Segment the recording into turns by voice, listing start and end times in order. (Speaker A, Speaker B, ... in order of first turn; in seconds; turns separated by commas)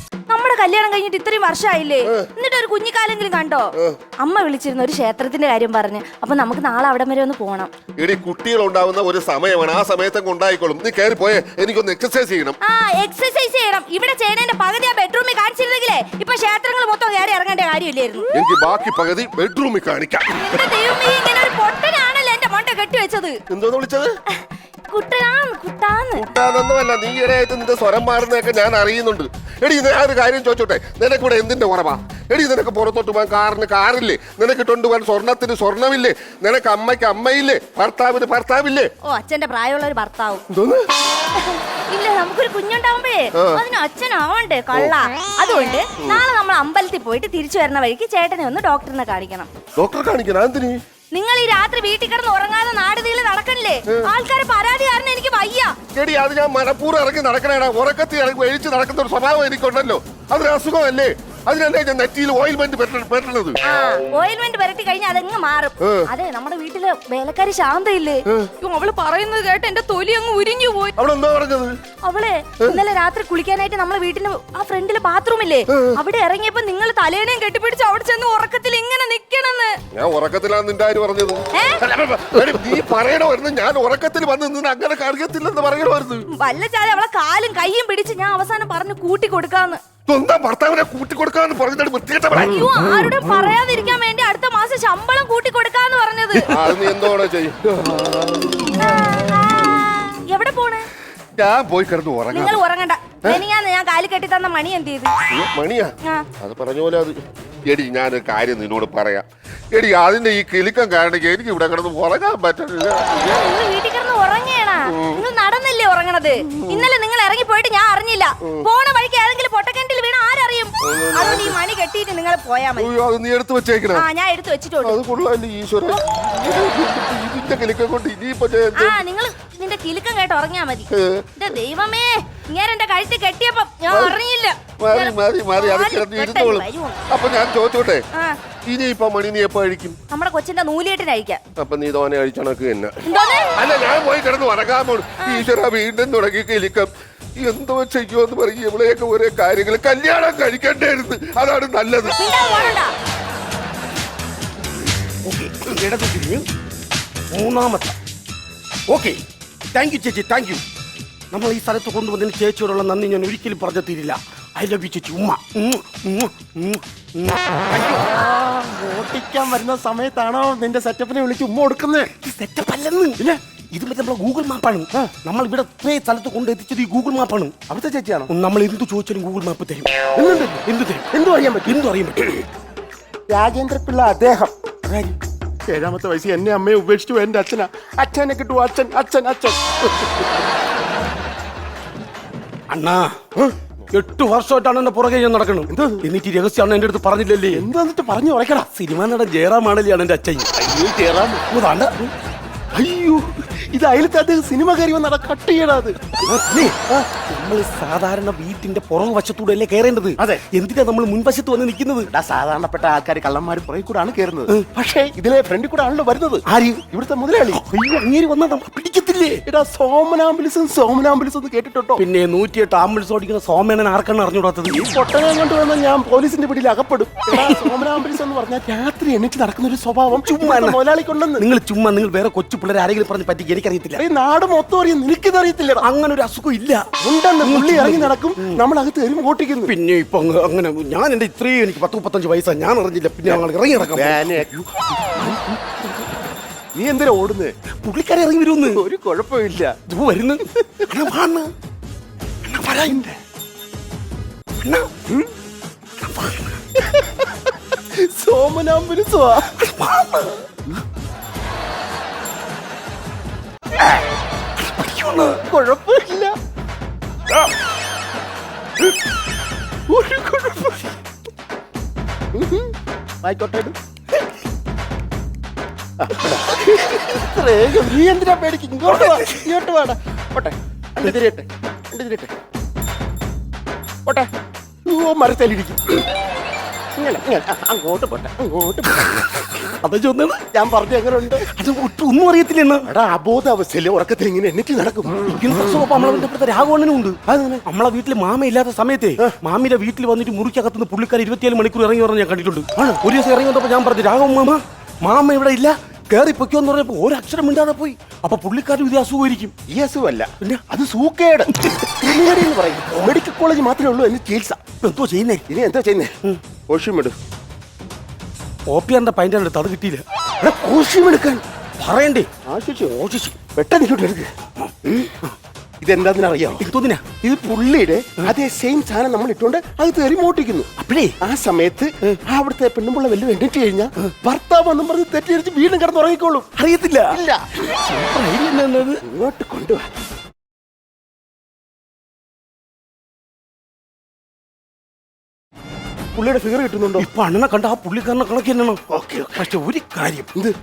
Speaker A: 0.3-7.7, Speaker B: 8.0-12.6, Speaker A: 12.6-18.3, Speaker B: 18.3-20.3, Speaker A: 20.4-23.4, Speaker B: 23.5-24.1, Speaker A: 24.4-26.2, Speaker B: 26.1-38.9, Speaker A: 39.0-40.4, Speaker B: 40.5-40.9, Speaker A: 41.4-49.5, Speaker B: 43.3-43.6, Speaker B: 49.8-50.8, Speaker A: 51.1-55.8, Speaker B: 55.9-63.6, Speaker A: 63.6-70.9, Speaker B: 65.8-66.1, Speaker B: 71.0-71.8, Speaker A: 72.0-79.7, Speaker B: 75.7-76.0, Speaker B: 79.9-86.2, Speaker A: 81.5-81.8, Speaker A: 86.3-89.8, Speaker B: 90.1-92.7, Speaker A: 92.3-96.6, Speaker B: 96.4-99.2, Speaker A: 98.7-100.9, Speaker B: 101.4-102.6, Speaker A: 102.3-105.1, Speaker B: 105.3-113.4, Speaker A: 113.2-122.9, Speaker B: 114.9-115.2, Speaker B: 116.6-116.9, Speaker B: 120.8-121.6, Speaker B: 122.8-124.0, Speaker A: 123.9-125.0, Speaker B: 124.8-129.0, Speaker A: 128.8-137.0, Speaker B: 130.9-131.3, Speaker B: 133.9-134.2, Speaker B: 134.8-138.0, Speaker B: 138.7-140.0, Speaker A: 140.1-141.4, Speaker B: 141.6-143.0, Speaker A: 143.1-143.6, Speaker B: 143.6-152.2, Speaker A: 152.1-152.9, Speaker C: 155.2-156.5, Speaker C: 157.3-158.0, Speaker C: 158.9-159.2, Speaker C: 159.7-160.6, Speaker C: 161.3-168.0, Speaker D: 167.9-172.1, Speaker C: 172.2-177.6, Speaker D: 177.7-178.3, Speaker C: 178.3-179.9, Speaker D: 180.1-181.8, Speaker C: 180.7-181.1, Speaker C: 181.7-182.4, Speaker D: 183.3-190.3, Speaker C: 192.7-193.2, Speaker C: 193.9-197.7, Speaker D: 195.7-196.1, Speaker D: 197.5-198.7, Speaker C: 198.7-200.5, Speaker D: 200.6-201.4, Speaker C: 201.5-202.1, Speaker D: 202.8-207.1, Speaker C: 206.2-212.1, Speaker D: 210.2-210.4, Speaker D: 212.1-217.6, Speaker C: 216.5-216.8, Speaker C: 217.5-219.4, Speaker D: 219.5-222.0, Speaker C: 222.0-224.8, Speaker D: 224.7-231.4, Speaker C: 227.3-227.6, Speaker C: 230.1-230.8, Speaker C: 231.4-234.0, Speaker D: 234.0-235.9, Speaker C: 235.8-236.9, Speaker D: 237.0-239.7, Speaker C: 237.4-238.6, Speaker C: 239.7-244.5, Speaker D: 243.3-244.6, Speaker D: 246.7-247.5, Speaker C: 247.8-248.8, Speaker D: 248.7-249.8, Speaker C: 249.9-251.5, Speaker C: 252.5-253.0, Speaker D: 252.7-253.2, Speaker C: 254.6-254.9, Speaker C: 256.0-256.6, Speaker D: 256.8-259.5, Speaker C: 259.6-260.4, Speaker C: 264.6-265.4, Speaker D: 265.4-266.4, Speaker D: 269.9-270.8, Speaker D: 272.3-273.8, Speaker D: 276.0-282.3, Speaker D: 284.9-286.1, Speaker D: 287.0-289.5, Speaker C: 289.0-290.4, Speaker D: 290.5-291.5, Speaker C: 291.5-292.9, Speaker D: 292.9-296.2, Speaker C: 295.3-309.5, Speaker D: 297.3-297.6, Speaker D: 309.7-314.6, Speaker C: 314.8-315.4, Speaker D: 315.5-316.1, Speaker D: 316.7-317.1, Speaker C: 318.7-320.0, Speaker D: 320.4-321.4, Speaker C: 321.8-322.3, Speaker D: 322.4-324.3, Speaker C: 324.6-325.4, Speaker D: 325.8-326.6, Speaker C: 326.6-327.0, Speaker D: 327.2-330.7, Speaker C: 330.8-331.1, Speaker D: 331.2-336.5, Speaker C: 336.6-339.0, Speaker D: 337.1-337.4, Speaker D: 339.0-339.9, Speaker D: 346.1-347.1, Speaker C: 347.0-348.8, Speaker D: 348.9-349.5, Speaker C: 349.4-350.3